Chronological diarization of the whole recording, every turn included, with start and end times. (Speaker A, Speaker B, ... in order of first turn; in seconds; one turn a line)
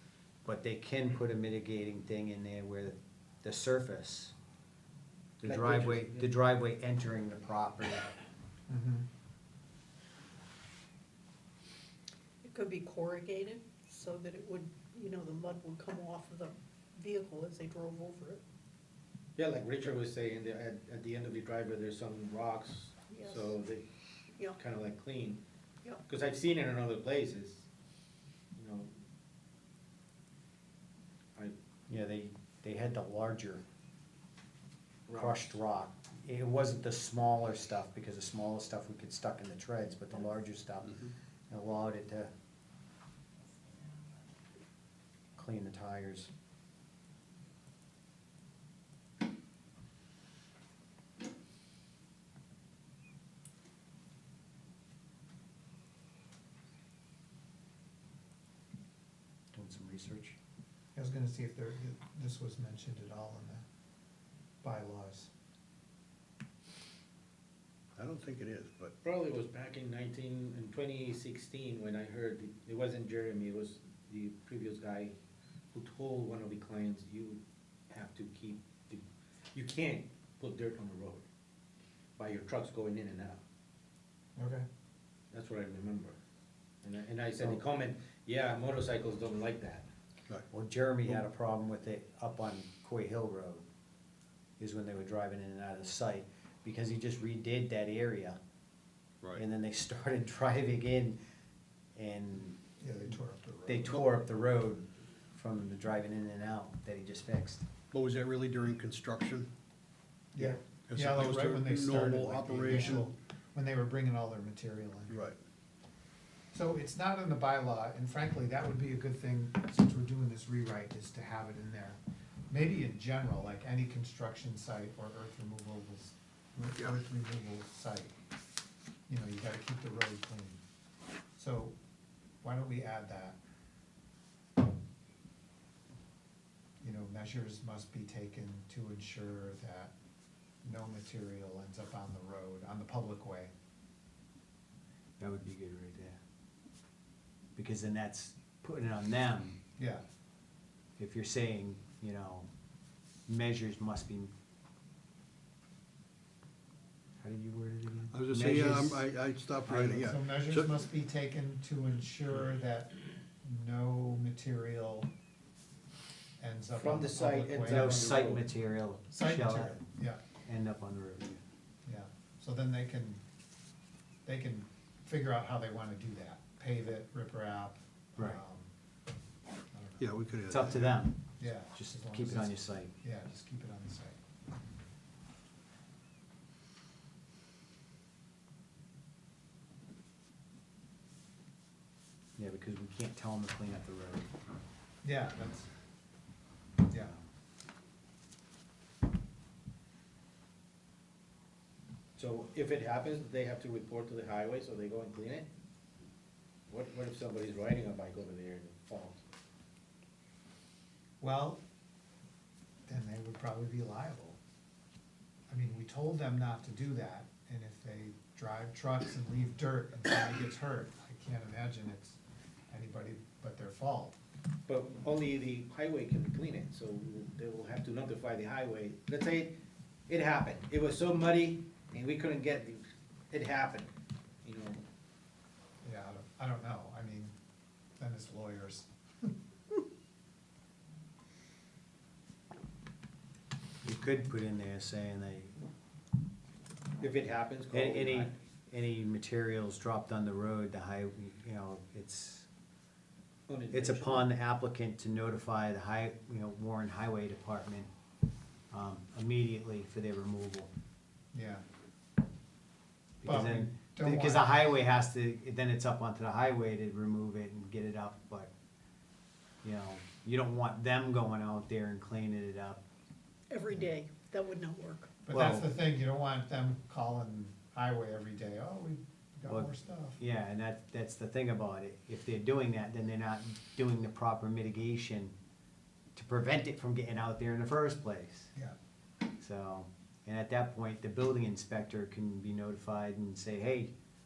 Speaker A: 0.5-4.3
Speaker A: 5.4-8.1
Speaker B: 5.4-6.3
Speaker C: 8.7-9.1
Speaker D: 12.4-18.4
Speaker B: 19.4-23.9
Speaker D: 23.1-23.5
Speaker B: 24.5-25.4
Speaker B: 26.1-27.7
Speaker B: 28.6-28.9
Speaker A: 31.9-33.6
Speaker B: 35.1-35.5
Speaker A: 35.1-42.3
Speaker A: 45.4-46.3
Speaker A: 59.5-60.4
Speaker C: 61.0-63.6
Speaker C: 64.6-65.3
Speaker E: 68.0-68.9
Speaker B: 69.0-75.2
Speaker B: 75.7-81.2
Speaker B: 82.2-83.4
Speaker C: 84.4-84.7
Speaker B: 85.3-86.2
Speaker B: 86.8-89.9
Speaker A: 90.5-93.6
Speaker A: 94.6-98.4
Speaker A: 99.3-101.2
Speaker A: 102.0-102.6
Speaker C: 102.8-104.0
Speaker A: 103.7-107.7
Speaker E: 107.9-109.5
Speaker C: 110.3-115.2
Speaker E: 110.4-113.1
Speaker E: 115.1-115.4
Speaker C: 116.5-122.0
Speaker C: 122.5-128.1
Speaker C: 129.1-130.6
Speaker C: 131.4-131.8
Speaker C: 132.4-133.4
Speaker C: 136.8-139.9
Speaker C: 140.6-143.5
Speaker A: 145.2-146.2
Speaker A: 147.6-149.6
Speaker C: 149.8-150.0
Speaker A: 151.0-152.5
Speaker A: 153.3-154.3
Speaker A: 157.2-159.0
Speaker E: 158.1-160.8
Speaker C: 159.7-165.1
Speaker C: 166.4-168.2
Speaker B: 166.8-168.4
Speaker A: 167.7-169.8
Speaker C: 169.1-170.2
Speaker A: 170.4-171.4
Speaker C: 171.9-173.2
Speaker C: 174.3-178.7
Speaker C: 179.7-184.2
Speaker E: 180.0-180.8
Speaker A: 180.5-182.9
Speaker A: 192.4-194.3
Speaker C: 195.0-195.7
Speaker C: 196.9-197.1
Speaker B: 202.2-205.5
Speaker B: 206.7-209.2
Speaker C: 211.2-211.6
Speaker C: 212.9-214.4
Speaker C: 215.5-222.2
Speaker C: 222.7-224.2
Speaker B: 224.7-229.6
Speaker B: 230.1-233.9
Speaker B: 234.4-234.8
Speaker C: 235.8-237.3
Speaker C: 238.0-239.3
Speaker A: 243.8-245.6
Speaker B: 247.0-248.3
Speaker A: 247.7-252.5
Speaker B: 253.5-254.3
Speaker A: 253.7-257.9
Speaker A: 258.7-260.7
Speaker C: 261.3-261.6
Speaker A: 263.2-268.5
Speaker C: 263.2-264.7
Speaker A: 269.6-272.8
Speaker D: 273.5-275.1
Speaker C: 275.3-280.2
Speaker A: 275.3-275.7
Speaker A: 279.5-285.3
Speaker A: 286.2-288.5
Speaker A: 289.4-293.9